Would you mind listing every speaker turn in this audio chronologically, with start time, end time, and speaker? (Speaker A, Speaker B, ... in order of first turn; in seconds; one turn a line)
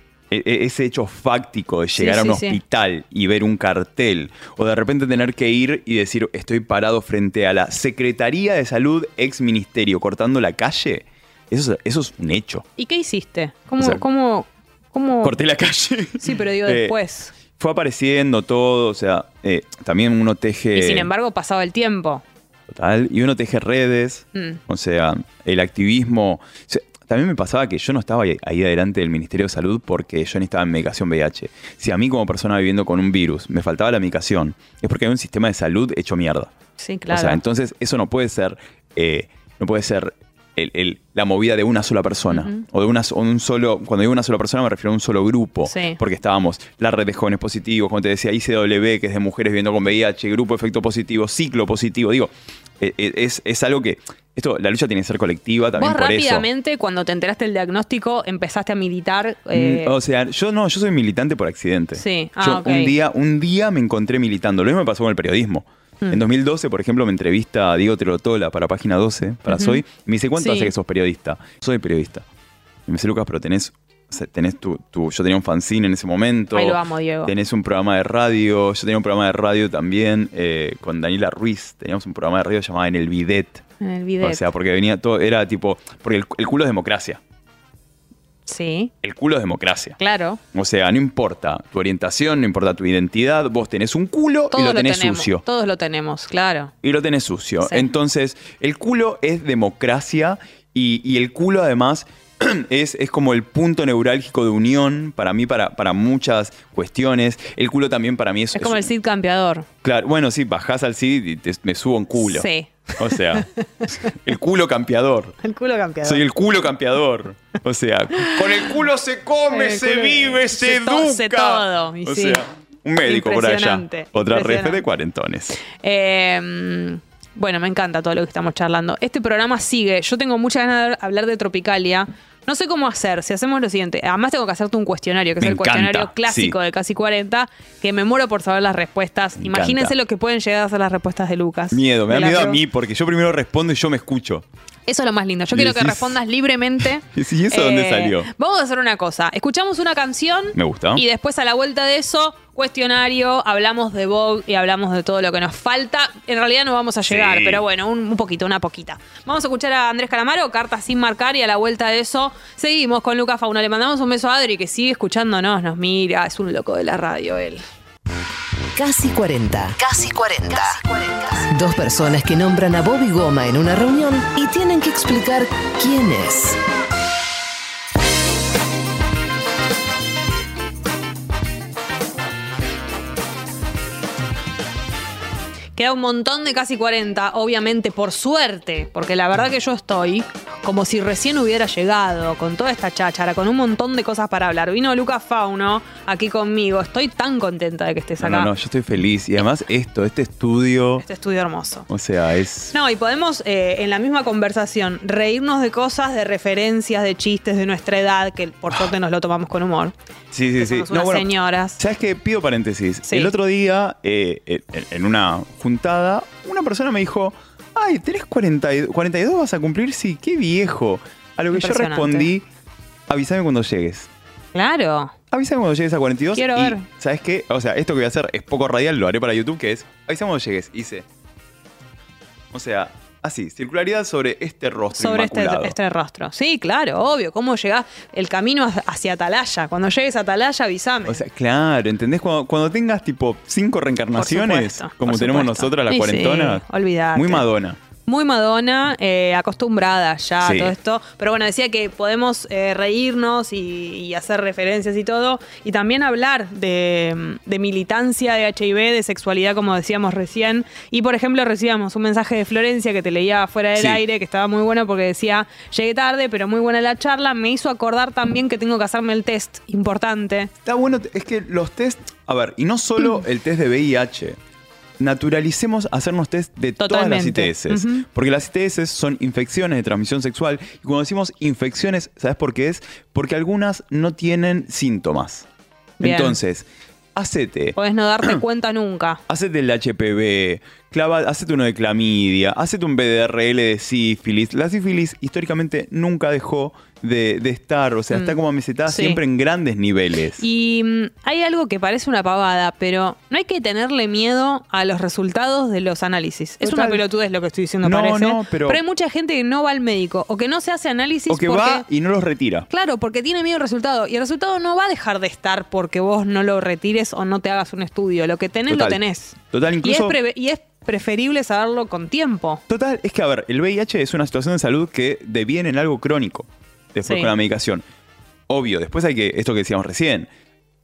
Speaker A: 0.3-12.6
Speaker B: 2.0-2.6
Speaker B: 12.8-15.4
Speaker A: 15.2-16.9
Speaker B: 16.2-17.3
Speaker A: 17.5-21.1
Speaker B: 20.7-22.2
Speaker A: 22.7-36.5
Speaker B: 24.3-24.6
Speaker B: 36.8-37.4
Speaker A: 37.1-56.5
Speaker B: 42.3-42.6
Speaker B: 45.6-46.0
Speaker B: 55.8-59.9
Speaker A: 59.5-72.2
Speaker B: 61.9-63.0
Speaker B: 69.5-69.8
Speaker B: 70.4-70.7
Speaker A: 72.9-83.6
Speaker B: 76.5-77.3
Speaker B: 83.8-84.5
Speaker A: 84.2-87.2
Speaker B: 88.5-88.9
Speaker A: 89.0-90.0
Speaker B: 90.0-90.4
Speaker A: 90.5-95.4
Speaker B: 94.5-96.7
Speaker A: 96.8-108.9
Speaker B: 97.6-97.9
Speaker B: 108.5-109.7
Speaker A: 109.8-115.4
Speaker B: 112.2-114.1
Speaker B: 115.4-116.2
Speaker A: 116.0-125.6
Speaker B: 119.5-122.4
Speaker B: 123.0-124.8
Speaker B: 125.6-142.6
Speaker A: 135.4-136.6
Speaker A: 139.4-139.9
Speaker A: 141.7-144.4
Speaker B: 144.9-167.6
Speaker A: 145.5-146.2
Speaker A: 146.8-148.3
Speaker A: 150.5-151.0
Speaker A: 157.1-157.6
Speaker C: 168.7-176.6
Speaker B: 185.8-198.5
Speaker A: 198.2-201.0
Speaker B: 201.0-201.9
Speaker A: 201.9-202.7
Speaker B: 202.7-209.9
Speaker A: 210.3-222.4
Speaker B: 210.6-211.8
Speaker B: 213.1-213.3
Speaker B: 221.5-222.3
Speaker A: 223.1-224.1
Speaker B: 224.5-225.1
Speaker A: 225.3-231.1
Speaker B: 226.3-226.8
Speaker A: 232.5-235.8
Speaker B: 234.9-241.2
Speaker A: 241.1-247.8
Speaker B: 244.2-247.4
Speaker B: 248.0-270.5
Speaker A: 250.4-250.7
Speaker A: 263.7-264.0
Speaker A: 270.6-274.4
Speaker A: 275.0-285.5
Speaker B: 276.8-278.0
Speaker B: 286.0-286.4
Speaker A: 286.0-288.4
Speaker B: 287.8-289.2
Speaker A: 289.3-300.4
Speaker B: 298.1-299.2
Speaker B: 300.4-311.9
Speaker A: 306.6-307.0
Speaker A: 307.8-308.8
Speaker A: 311.3-312.7
Speaker B: 312.7-322.6
Speaker A: 318.7-320.2
Speaker A: 322.7-327.8
Speaker B: 327.0-327.3
Speaker A: 328.5-330.3